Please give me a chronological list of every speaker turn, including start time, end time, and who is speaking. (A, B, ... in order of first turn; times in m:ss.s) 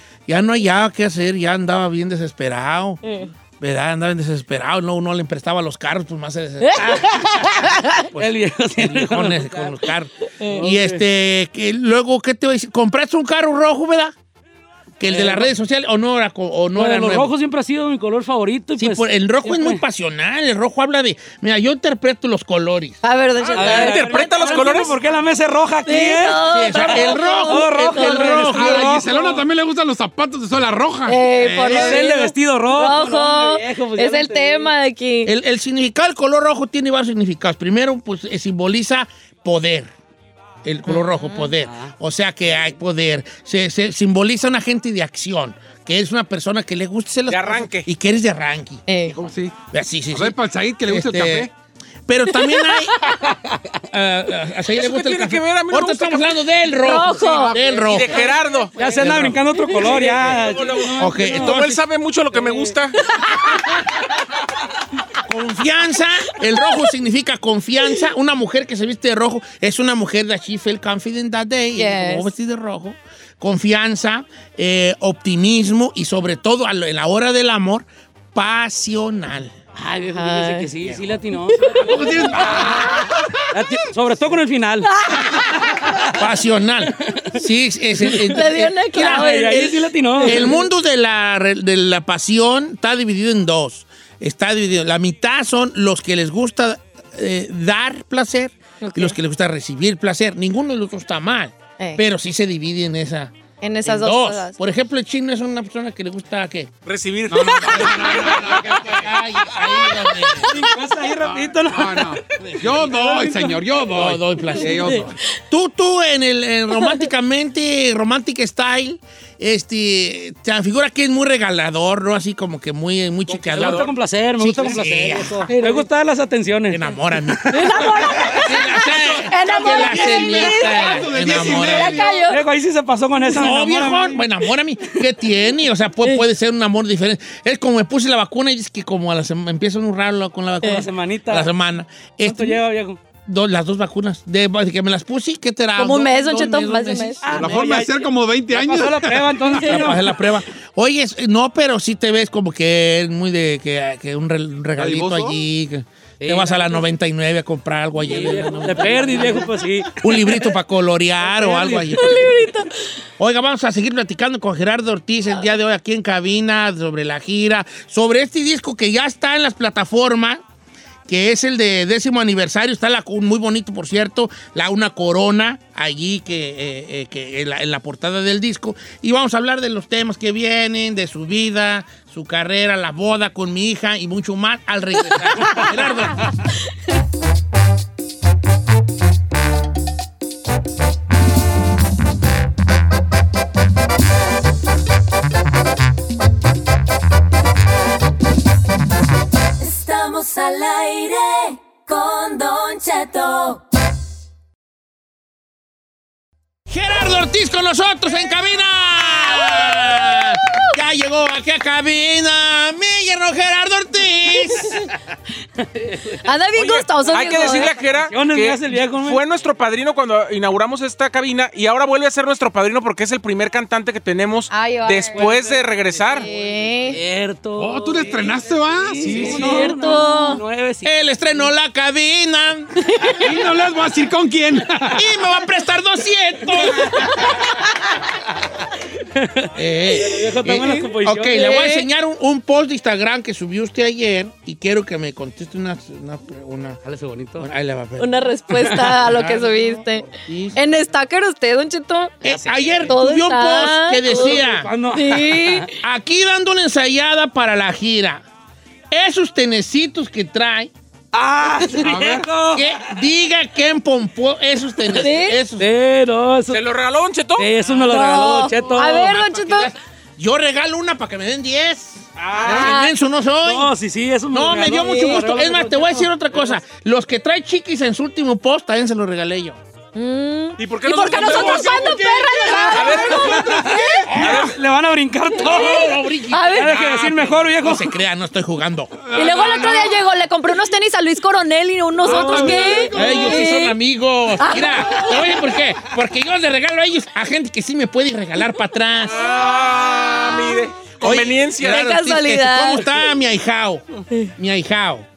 0:00.3-0:03.0 A
0:03.0-0:03.3 B
0:03.6-0:14.2 A
0:06.8-0:07.3 C
0:06.8-0:07.6 B
0:08.1-0:09.8 C
0:10.4-0:11.0 C
0:15.0-0:17.3 A
0:15.0-0:15.5 C
0:16.8-0:19.8 C
0:18.8-0:23.0 A
0:23.0-0:24.7 B
0:23.5-0:25.0 D
0:23.5-0:29.4 C
0:25.9-0:28.6 B
0:26.5-0:29.0 A
0:28.3-0:32.1 E
0:31.1-0:35.3 B
0:31.6-0:34.7 C
0:35.2-0:39.9 A
0:40.6-0:51.5 A
0:40.9-0:41.5 B
0:41.6-0:41.9 C
0:47.3-0:47.9 D
0:48.9-0:49.2 B
0:49.1-0:49.6 E
0:50.1-0:51.5 E
0:52.1-0:58.3 A
0:52.4-0:52.8 B
0:54.7-0:56.4 D
0:56.8-0:57.6 B
0:57.0-0:58.0 E
0:57.7-0:58.8 D
0:58.2-0:59.0 B
0:58.7-1:01.6 C
0:58.9-0:59.4 A
0:59.6-1:00.0 B
0:59.8-1:03.0 D
1:01.0-1:01.8 A
1:02.3-1:02.8 C
1:03.1-1:03.8 B
1:05.2-1:19.5 A
1:11.8-1:12.3 B
1:19.8-1:22.4 C
1:20.2-1:20.7 B
1:21.7-1:23.2 E
1:21.7-1:22.3 B
1:23.5-1:24.9 C
1:25.0-1:25.9 B
1:26.1-1:46.7 A
1:26.9-1:27.4 C
1:28.0-1:30.5 C
1:28.3-1:30.6 B
1:38.8-1:39.2 B
1:43.6-1:44.6 B
1:46.9-1:48.8 D
1:47.3-1:50.6 A
1:47.6-1:49.1 E
1:50.3-1:53.6 C
1:51.2-1:55.2 E
1:53.9-2:05.5 A
2:03.5-2:06.8 C
2:03.6-2:03.8 D
2:05.5-2:05.8 B
2:06.7-2:12.0 A
2:07.4-2:07.9 C
2:07.5-2:12.4 B
2:09.4-2:12.1 E
2:12.1-2:14.2 C
2:13.2-2:22.6 A
2:20.6-2:21.5 C
2:22.2-2:23.0 C
2:23.3-2:27.6 A
2:25.8-2:27.3 B
2:27.2-2:30.2 C
2:27.3-2:29.6 E
2:29.6-2:42.5 A
2:34.8-2:35.4 E
2:36.2-2:36.9 C
2:38.0-2:40.0 C
2:41.2-2:42.1 C
2:41.9-2:42.7 B
2:43.2-2:50.4 A
2:51.1-3:06.3 A
3:19.6-3:23.6 F
3:26.7-3:34.9 A
3:35.6-3:36.2 C
3:36.2-3:37.7 B
3:36.6-3:46.3 D
3:37.4-3:39.2 C
3:44.5-3:45.5 B
3:45.1-3:51.5 C
3:46.1-3:47.0 B
3:47.6-3:49.8 E
3:49.2-3:50.4 B
3:50.8-3:52.9 A
3:52.8-3:53.2 B
3:53.2-3:55.1 E
3:54.9-3:57.4 A
3:59.1-4:01.8 C
3:59.5-4:06.8 A
4:06.8-4:07.5 C
4:07.4-4:10.6 A
4:08.0-4:12.2 B
4:08.5-4:09.0 C
4:12.2-4:14.7 A
4:12.2-4:13.0 C
4:12.9-4:14.4 B
4:14.0-4:15.7 C
4:14.9-4:15.7 B
4:15.8-4:18.2 A
4:18.9-4:20.7 A
4:21.1-4:22.7 C
4:21.8-4:22.3 E
4:22.5-4:25.7 A
4:25.0-4:25.4 B
4:25.6-4:26.6 C
4:26.5-4:27.5 D
4:27.4-4:29.1 C
4:27.9-4:29.7 B
4:28.8-4:33.7 A
4:32.2-4:32.6 D
4:32.4-4:32.7 C
4:32.4-4:32.9 B
4:33.4-4:36.6 C
4:34.3-4:39.6 A
4:34.9-4:35.2 B
4:40.0-4:43.5 B
4:40.6-4:44.6 D
4:41.1-4:41.7 C
4:42.4-4:45.9 C
4:44.0-4:44.6 A
4:45.4-4:49.0 A
4:46.3-4:46.7 B
4:46.5-4:47.9 C
4:49.0-4:50.0 E
4:49.1-4:53.8 B
4:52.0-4:53.4 E
4:52.1-4:53.2 C
4:52.9-4:59.3 A
4:54.4-4:55.5 B
4:59.0-5:01.9 D
5:00.1-5:00.6 B
5:01.0-5:05.1 A
5:01.7-5:02.9 B